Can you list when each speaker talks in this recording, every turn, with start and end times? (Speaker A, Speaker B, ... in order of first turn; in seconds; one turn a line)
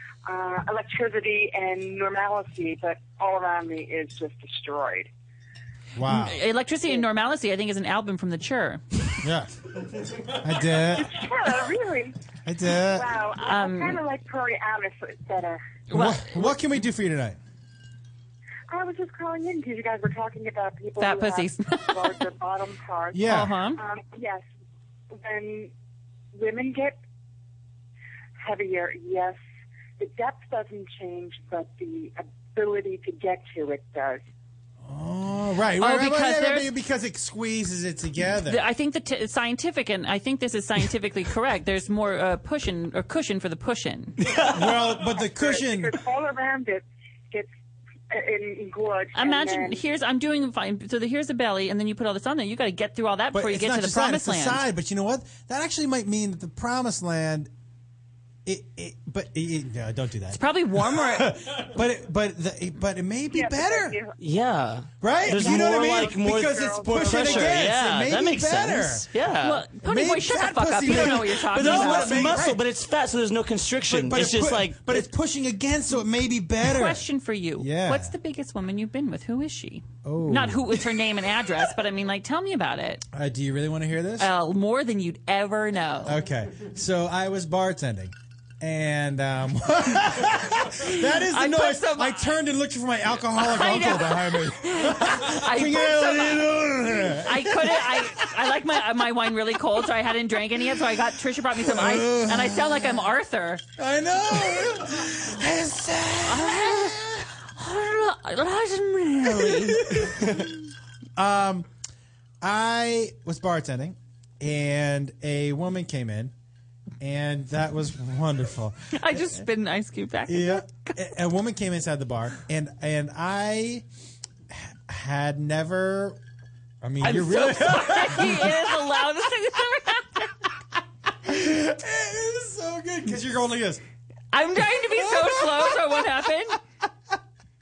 Speaker A: 0.3-5.1
Speaker B: 6.0-6.4
Speaker C: 6.1-8.8
Speaker B: 9.2-9.5
Speaker B: 10.4-11.2
Speaker A: 10.9-12.1
Speaker B: 12.4-13.2
Speaker A: 12.9-15.6
Speaker C: 13.4-14.0
Speaker C: 15.9-16.6
Speaker B: 15.9-17.4
Speaker A: 18.7-24.4
Speaker C: 21.0-22.1
Speaker B: 23.1-23.6
Speaker C: 23.2-23.8
Speaker A: 25.2-25.7
Speaker A: 26.4-26.9
Speaker A: 28.4-29.4
Speaker A: 30.0-34.2
Speaker B: 34.8-38.6
Speaker C: 35.8-36.7
Speaker C: 38.5-44.2
Speaker B: 44.5-46.0
Speaker A: 45.2-47.5
Speaker A: 48.1-49.7
Speaker C: 49.1-54.6
Speaker B: 53.3-57.5
Speaker B: 58.5-64.0
Speaker C: 60.3-61.4
Speaker A: 63.3-64.1
Speaker D: 64.2-69.6
Speaker B: 65.0-69.1
Speaker A: 65.9-67.5
Speaker C: 69.4-72.4
Speaker B: 69.8-72.6
Speaker D: 70.9-75.1
Speaker B: 73.9-77.1
Speaker C: 76.6-83.0
Speaker B: 77.6-78.1
Speaker B: 80.0-80.8
Speaker B: 83.1-84.3
Speaker C: 84.2-86.2
Speaker B: 86.0-98.3
Speaker C: 90.8-92.3
Speaker C: 93.4-103.7
Speaker B: 101.5-103.1
Speaker B: 103.8-107.2
Speaker C: 106.3-110.1
Speaker B: 109.3-110.3
Speaker B: 111.2-111.7
Speaker B: 112.4-116.3
Speaker B: 117.0-119.5
Speaker C: 119.0-121.0
Speaker B: 120.3-123.8
Speaker B: 124.5-126.2
Speaker B: 126.8-128.7
Speaker C: 127.0-130.2
Speaker B: 131.2-133.8
Speaker C: 134.3-136.6
Speaker B: 134.9-136.0